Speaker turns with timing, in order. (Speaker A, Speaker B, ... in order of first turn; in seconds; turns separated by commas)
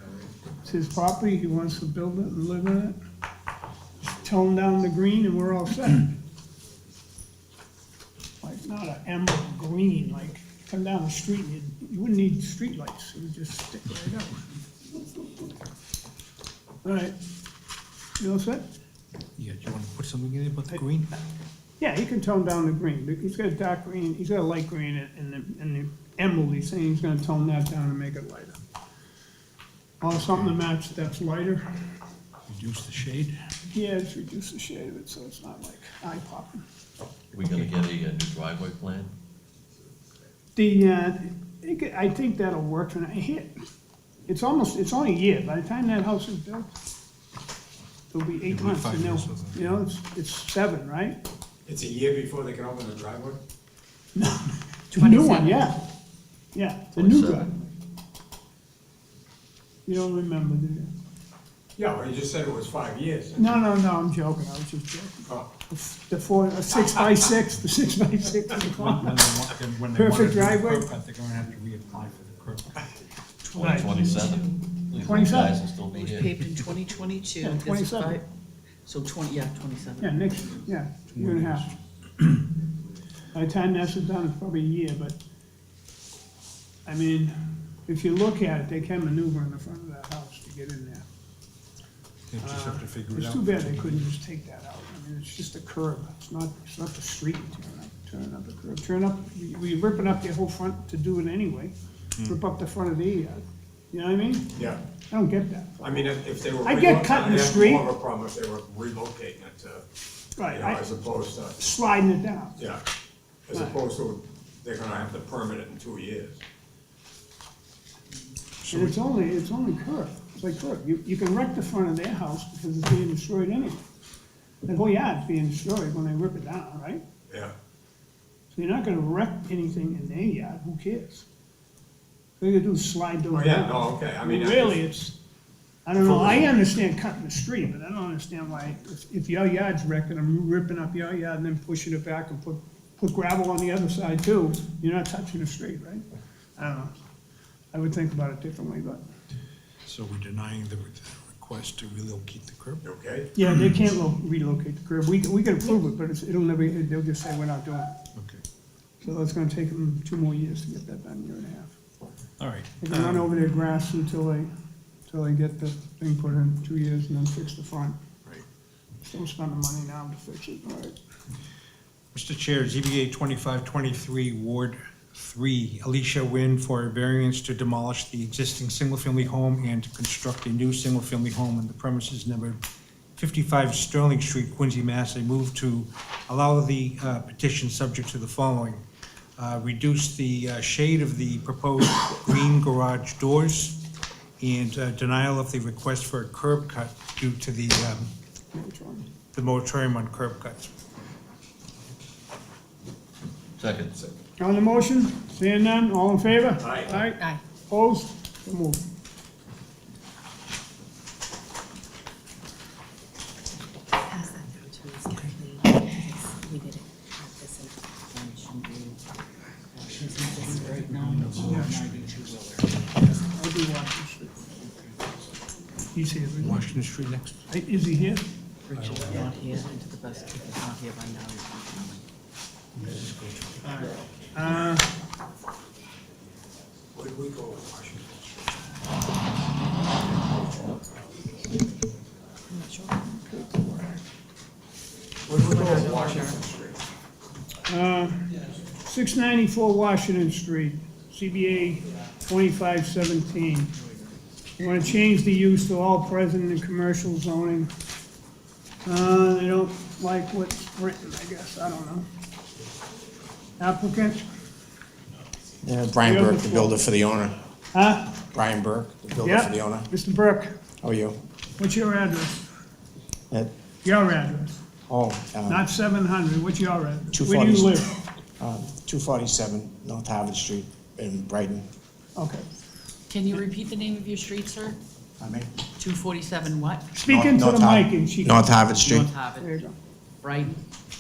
Speaker A: 0.6-3.0, Speaker A: 4.0-6.1, Speaker A: 8.4-14.5, Speaker A: 16.8-17.2, Speaker A: 18.2-18.7, Speaker B: 19.4-21.1, Speaker A: 21.8-28.6, Speaker A: 30.0-31.9, Speaker B: 32.5-33.4, Speaker A: 33.7-36.6, Speaker C: 37.3-39.1, Speaker A: 40.5-43.5, Speaker A: 44.3-46.7, Speaker A: 48.1-51.2, Speaker B: 48.5-49.8, Speaker D: 51.7-53.4, Speaker A: 54.1-55.9, Speaker E: 55.0-55.7, Speaker A: 56.5-57.5, Speaker C: 57.0-57.5, Speaker A: 59.9-60.9, Speaker D: 61.8-63.6, Speaker A: 63.4-69.2, Speaker B: 68.6-72.8, Speaker A: 69.9-70.9, Speaker E: 73.4-74.8, Speaker C: 73.5-76.5, Speaker A: 73.6-74.0, Speaker A: 75.0-75.6, Speaker E: 75.9-78.3, Speaker A: 77.4-78.2, Speaker E: 78.9-80.1, Speaker A: 80.0-81.7, Speaker B: 81.2-81.7, Speaker A: 83.3-85.2, Speaker A: 86.9-91.0, Speaker B: 92.3-94.1, Speaker A: 92.4-104.5, Speaker D: 104.5-104.8, Speaker A: 105.1-106.0, Speaker D: 105.8-109.8, Speaker A: 106.6-107.9, Speaker A: 110.4-110.8, Speaker D: 110.5-111.6, Speaker A: 111.6-112.6, Speaker D: 113.5-116.4, Speaker B: 118.6-119.0, Speaker A: 118.7-123.9, Speaker A: 124.7-127.0, Speaker D: 127.3-127.5, Speaker A: 128.5-131.3, Speaker A: 132.4-135.2, Speaker D: 133.3-134.8, Speaker A: 135.9-146.1, Speaker D: 136.0-136.5, Speaker A: 146.6-146.9, Speaker A: 147.7-149.0, Speaker B: 149.8-152.8, Speaker D: 152.8-153.3, Speaker A: 153.3-158.0, Speaker B: 158.2-158.4, Speaker A: 159.0-161.8, Speaker B: 162.4-163.3, Speaker A: 162.8-164.5, Speaker A: 165.1-168.0, Speaker A: 169.0-171.0, Speaker B: 172.1-182.6, Speaker B: 183.2-188.8, Speaker B: 189.4-193.8, Speaker B: 194.4-198.1, Speaker A: 198.5-199.1, Speaker B: 199.3-200.7, Speaker C: 203.6-204.0, Speaker A: 204.4-208.8, Speaker D: 206.6-206.9, Speaker F: 214.1-217.8, Speaker E: 218.1-219.0, Speaker E: 219.7-222.7, Speaker B: 220.5-222.3, Speaker A: 223.0-224.5, Speaker A: 225.9-226.6, Speaker B: 226.4-227.4, Speaker A: 227.5-228.3, Speaker E: 228.7-232.1, Speaker B: 228.7-229.3, Speaker B: 232.8-233.8, Speaker A: 233.6-234.9, Speaker D: 236.9-238.3, Speaker E: 242.5-243.0, Speaker A: 243.1-244.0, Speaker D: 245.3-246.8, Speaker E: 245.4-246.4, Speaker A: 247.7-253.7, Speaker A: 254.6-257.7, Speaker A: 258.9-262.1, Speaker A: 263.6-264.3, Speaker G: 265.6-267.4, Speaker A: 266.0-266.9, Speaker A: 267.7-268.3, Speaker G: 268.3-269.9, Speaker A: 269.2-270.6, Speaker G: 270.8-271.2, Speaker A: 271.6-272.5, Speaker A: 273.8-274.6, Speaker G: 274.9-275.6, Speaker A: 275.5-278.0, Speaker G: 277.1-277.8, Speaker G: 278.4-281.6, Speaker A: 282.2-282.5, Speaker E: 283.1-284.8, Speaker G: 285.2-285.5, Speaker E: 285.8-286.9, Speaker A: 286.9-288.6, Speaker G: 287.0-289.1, Speaker E: 288.8-289.5, Speaker A: 289.4-289.8, Speaker E: 290.2-290.6